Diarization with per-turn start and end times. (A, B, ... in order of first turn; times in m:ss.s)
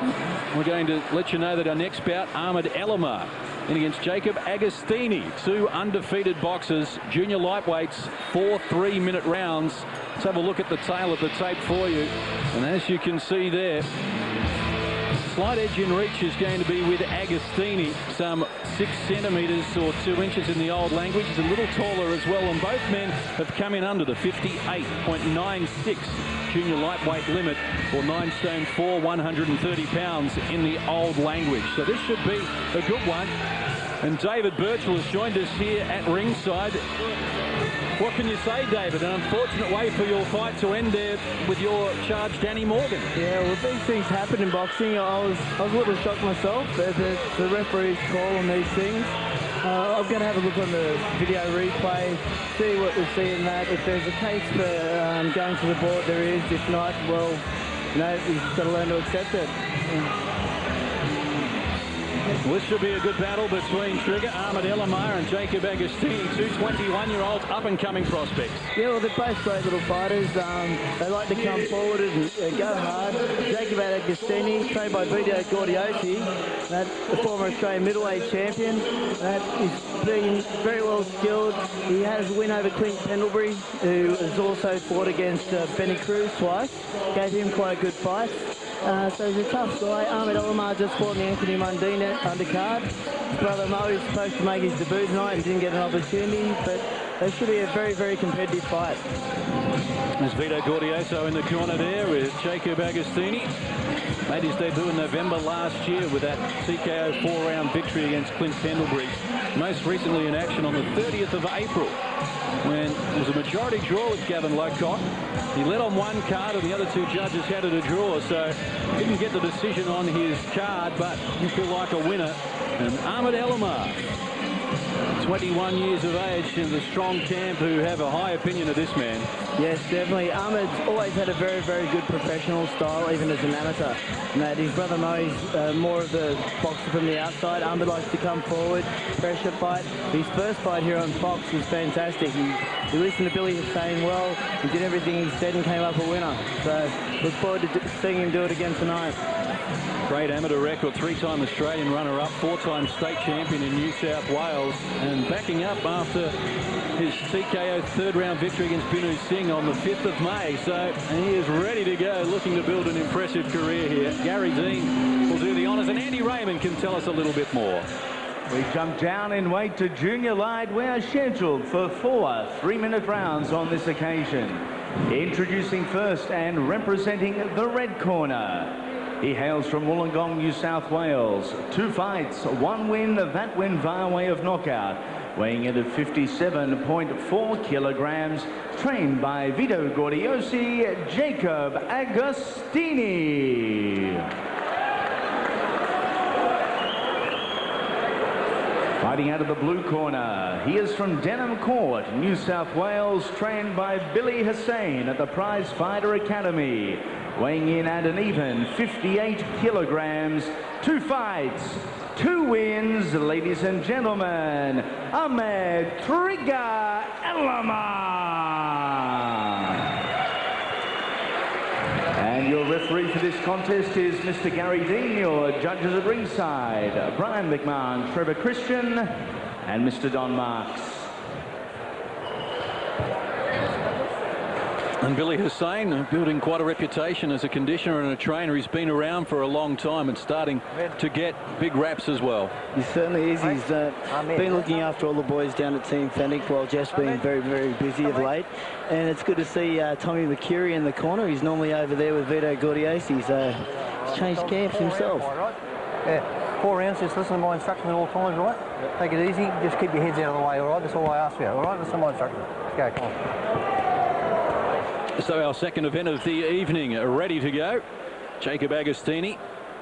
0:00.5-0:13.9 A
0:15.2-0:33.3 A
0:34.0-0:36.8 A
0:38.0-0:43.1 A
0:43.1-1:00.0 B
1:02.4-1:08.7 A
1:08.7-1:39.0 B
1:40.2-1:43.5 A
1:44.2-1:52.0 A
1:52.6-2:04.0 A
2:05.2-2:09.3 A
2:09.6-2:29.2 B
2:30.0-2:36.4 A
2:36.9-2:47.9 A
2:48.5-3:14.3 C
3:19.0-3:39.9 C
3:42.2-3:49.1 C
3:49.6-3:51.1 C
3:55.0-4:02.5 A
4:02.7-4:15.3 B
4:04.1-4:04.4 D
4:14.5-4:15.5 D
4:16.1-4:23.2 D
4:25.2-4:27.8 A
4:28.4-4:29.4 A